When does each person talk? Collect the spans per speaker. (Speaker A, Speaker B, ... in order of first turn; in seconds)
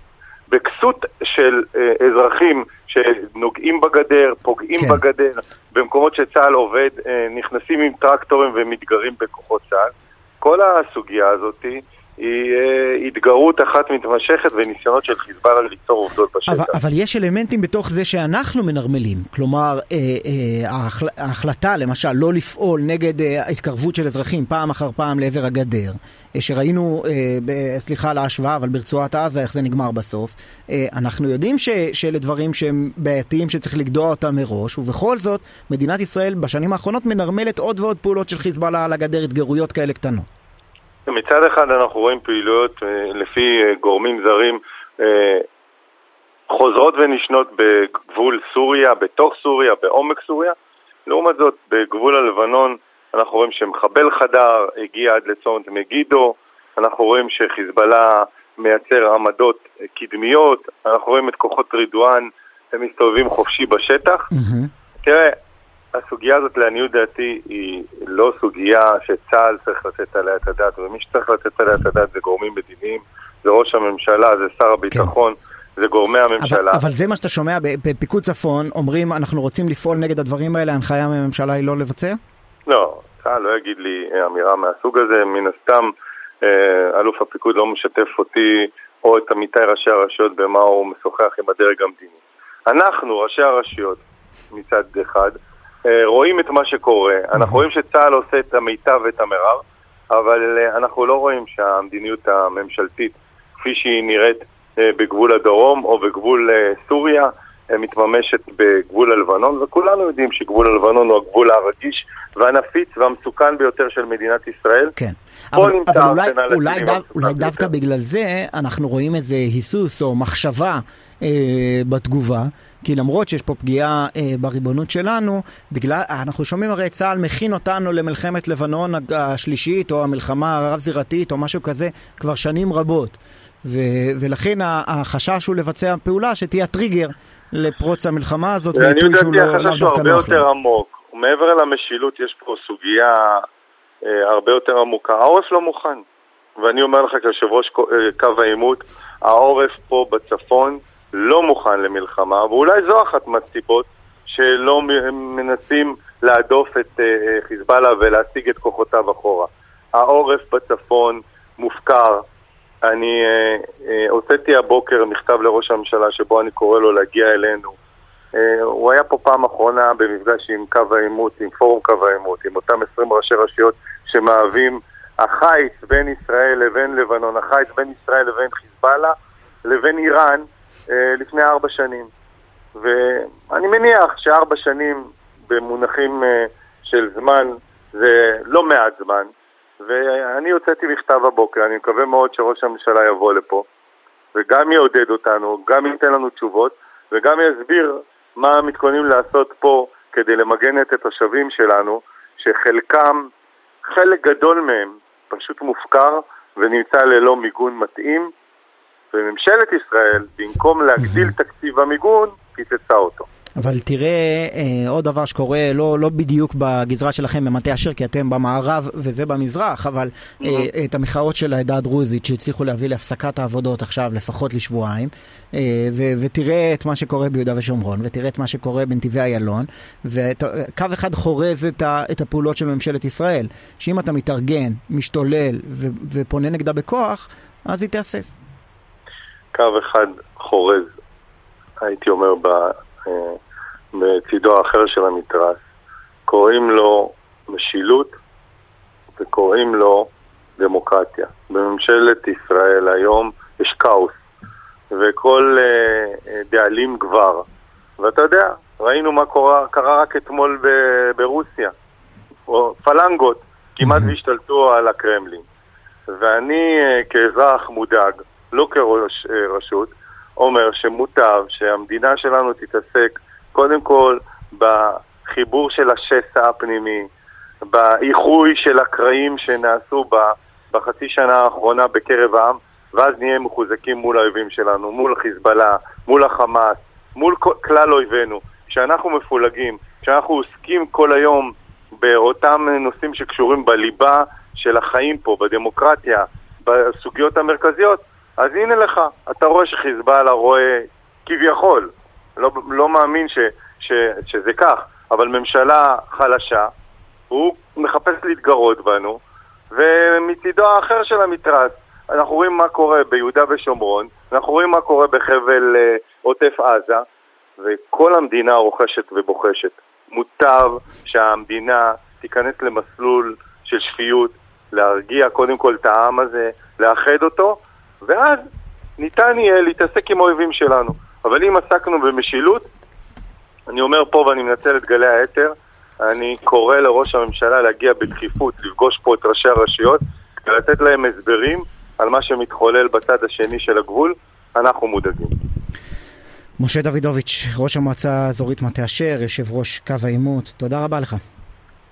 Speaker A: 0.5-16.8, 41.1-45.5, 46.5-50.5, 51.1-64.3, 65.0-65.3, 65.9-76.8, 82.7-95.3, 95.8-115.0, 115.5-117.7, 138.7-143.4, 144.0-146.0, 146.6-162.2, 162.8-167.8, 168.3-182.1, 182.8-193.7, 194.3-203.3, 203.8-208.3, 209.1-213.3, 220.4-220.7, 239.5-240.9, 241.8-243.4, 243.9-245.6, 246.3-248.2, 249.2-254.2, 254.9-257.4, 258.0-261.7, 262.5-265.4, 266.1-277.1, 277.7-306.7, 307.3-309.2, 309.7-317.0, 317.6-328.4, 329.0-332.7, 333.7-345.3
Speaker B: 4.8-5.0, 16.5-40.3, 64.3-64.7, 74.9-75.1, 76.4-82.2, 97.4-97.6, 115.0-140.4, 211.0-211.3, 213.6-238.4, 263.8-264.1, 346.6-351.2